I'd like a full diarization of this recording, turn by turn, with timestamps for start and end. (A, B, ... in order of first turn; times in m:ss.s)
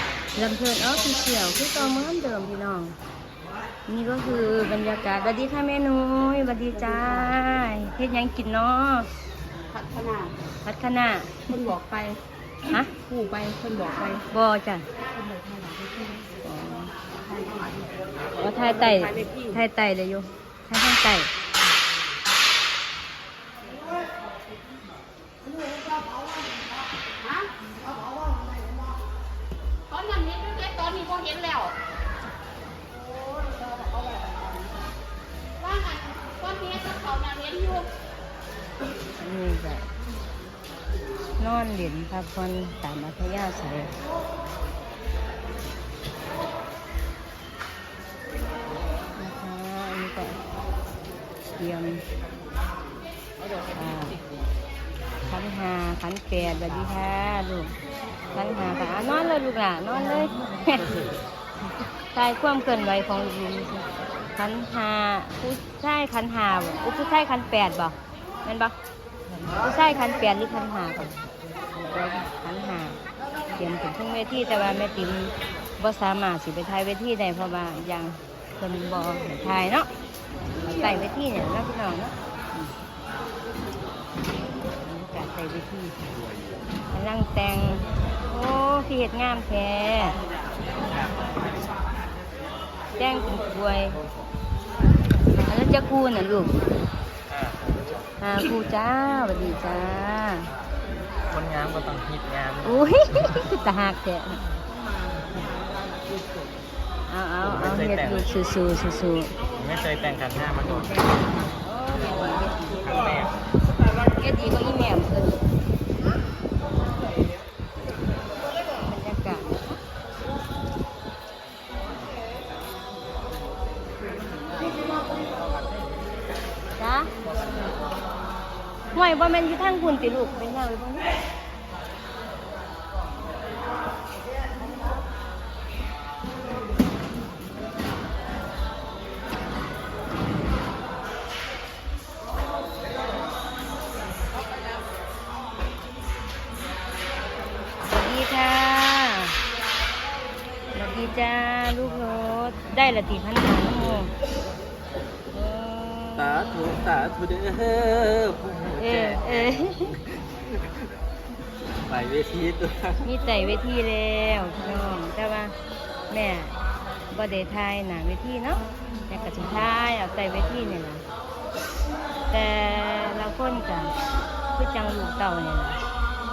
0:00.4-0:03.0 A
0:03.9-0:09.1 A
0:09.8-0:10.3 B
0:10.6-0:11.5 A
0:11.5-0:12.2 B
0:12.7-0:12.9 A
0:13.0-0:14.2 B
0:14.3-0:14.9 A
0:15.3-0:16.2 B
0:16.4-0:16.9 A
0:18.4-0:21.3 A
0:30.0-0:31.7 B
0:35.7-0:37.9 B
0:39.2-0:39.9 A
0:41.4-0:43.9 A
0:49.2-0:50.4 A
0:51.5-0:52.0 A
0:53.7-0:54.2 A
0:55.2-0:57.8 A
0:58.3-1:01.0 A
1:02.1-1:08.7 A
1:09.6-1:11.2 A
1:11.8-1:13.0 A
1:13.5-1:19.9 A
1:20.6-1:22.7 A
1:24.7-1:26.0 A
1:26.9-1:30.2 A
1:30.8-1:31.5 C
1:33.0-1:34.0 A
1:35.5-1:36.5 A
1:37.3-1:38.0 C
1:38.2-1:40.5 A
1:41.3-1:41.9 C
1:42.6-1:44.4 A
1:47.1-1:49.4 A
1:47.5-1:48.1 C
1:49.6-1:50.4 C
1:50.8-1:53.1 A
1:52.8-1:53.3 C
1:54.0-1:55.5 A
1:58.6-1:59.8 A
2:06.8-2:07.1 A
2:08.9-2:11.2 A
2:27.8-2:29.4 A
2:30.7-2:34.1 A
2:35.3-2:36.4 A
2:36.2-2:39.5 C
2:38.8-2:40.0 A
2:41.8-2:43.0 C
2:43.0-2:45.6 A
2:46.1-2:46.6 A
2:47.1-2:51.0 A
2:52.3-2:53.9 A
2:54.5-2:55.8 A